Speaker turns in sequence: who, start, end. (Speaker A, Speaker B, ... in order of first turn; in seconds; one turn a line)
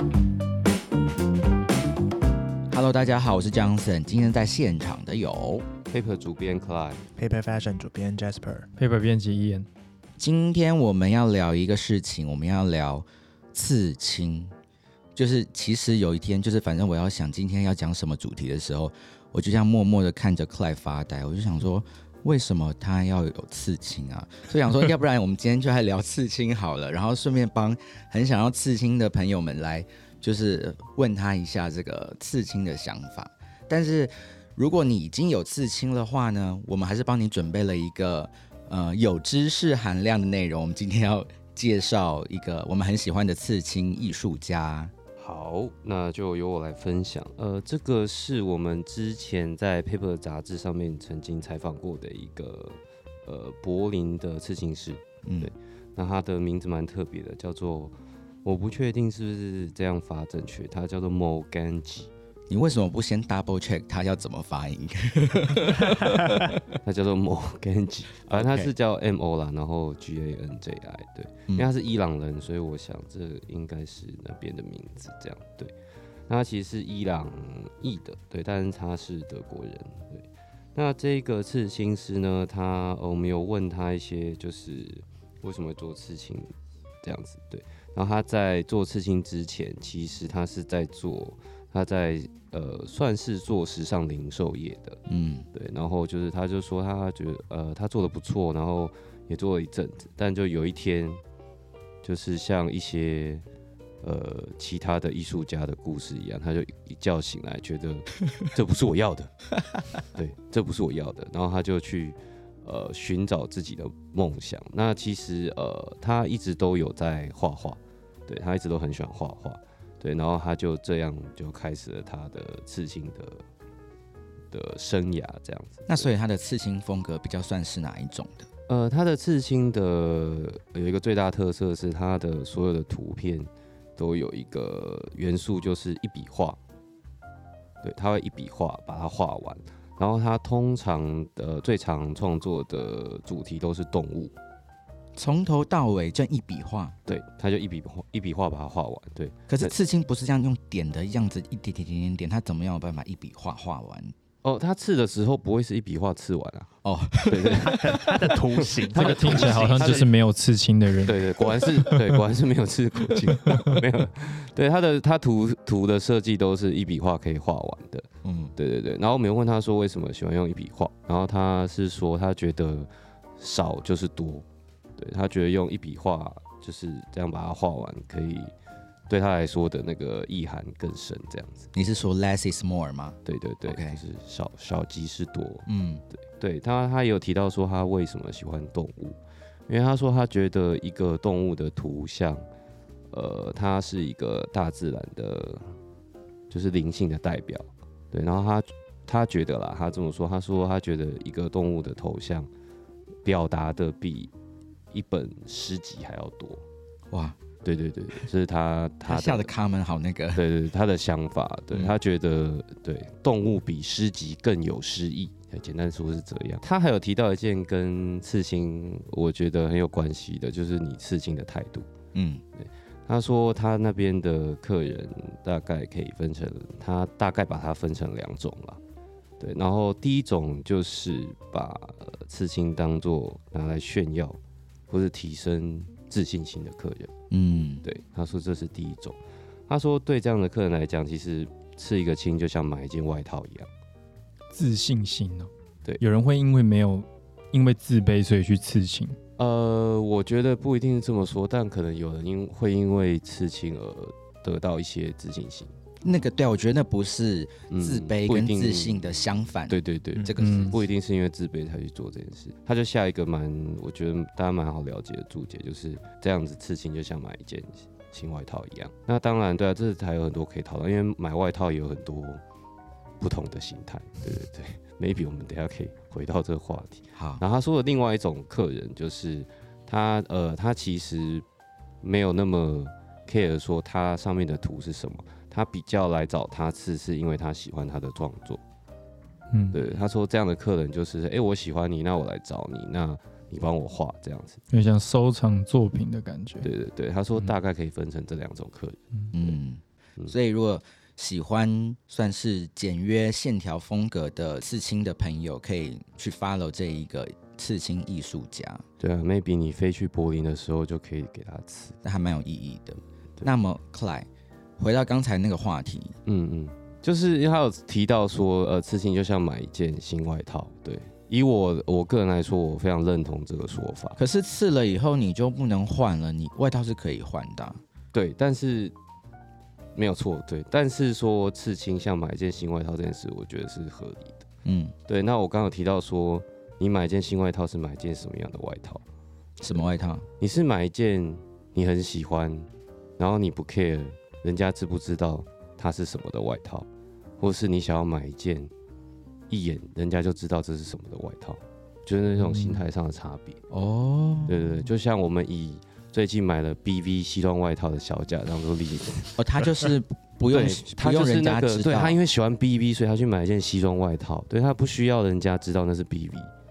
Speaker A: 2.7-5.7
Speaker B: 5.9-7.1
Speaker C: 7.2-8.7
Speaker D: 8.8-9.7
Speaker A: 10.2-14.5
Speaker A: 15.2-44.9
Speaker B: 45.2-62.1
Speaker A: 55.2-55.5
Speaker A: 62.5-66.4
Speaker B: 66.8-75.7
Speaker A: 68.3-68.7
Speaker B: 76.3-95.0
Speaker A: 95.1-95.5
Speaker B: 95.5-101.2
Speaker B: 102.0-103.4
Speaker B: 104.0-109.5
Speaker B: 110.0-123.4
Speaker B: 124.5-126.1
Speaker A: 125.9-128.5
Speaker B: 128.7-136.6
Speaker B: 137.8-144.3
Speaker A: 145.2-146.9
Speaker B: 147.1-149.7
Speaker A: 149.5-154.1
Speaker B: 154.4-156.7
Speaker A: 156.8-158.1
Speaker B: 157.2-158.1
Speaker C: 157.6-160.1
Speaker B: 158.9-160.1
Speaker D: 158.9-161.2
Speaker B: 161.0-174.4
Speaker D: 163.4-163.7
Speaker A: 168.2-168.5
Speaker B: 175.0-178.5
Speaker B: 179.1-181.7
Speaker A: 181.7-184.0
Speaker B: 183.2-185.7
Speaker A: 185.7-186.0
Speaker B: 186.3-192.4
Speaker B: 193.1-195.7
Speaker B: 196.5-202.5
Speaker B: 203.2-204.3
Speaker B: 204.9-206.6
Speaker A: 207.1-207.3
Speaker B: 207.6-209.5
Speaker A: 209.1-210.4
Speaker B: 210.3-221.9
Speaker A: 222.1-222.4
Speaker B: 222.6-228.8
Speaker B: 229.4-237.1
Speaker A: 237.3-237.8
Speaker B: 237.8-243.7
Speaker D: 244.5-249.2
Speaker B: 249.4-255.7
Speaker A: 256.0-260.8
Speaker B: 257.7-259.2
Speaker B: 259.7-272.4
Speaker D: 260.4-260.8
Speaker B: 273.2-281.4
Speaker A: 277.1-277.4
Speaker B: 282.0-288.6
Speaker D: 289.5-289.8
Speaker B: 289.7-294.6
Speaker D: 294.7-296.7
Speaker B: 296.6-299.5
Speaker A: 299.3-308.8
Speaker B: 309.0-312.0
Speaker A: 312.0-314.3
Speaker A: 314.8-316.1
Speaker B: 316.2-324.2
Speaker A: 324.1-327.8
Speaker B: 328.1-328.9
Speaker B: 329.9-334.4
Speaker A: 334.6-334.9
Speaker B: 335.1-339.0
Speaker A: 339.6-340.3
Speaker B: 340.4-346.9
Speaker B: 347.4-348.7
Speaker B: 349.5-353.6
Speaker A: 352.4-352.8
Speaker A: 353.7-354.5
Speaker B: 354.5-359.9
Speaker A: 359.4-362.2
Speaker B: 360.5-366.5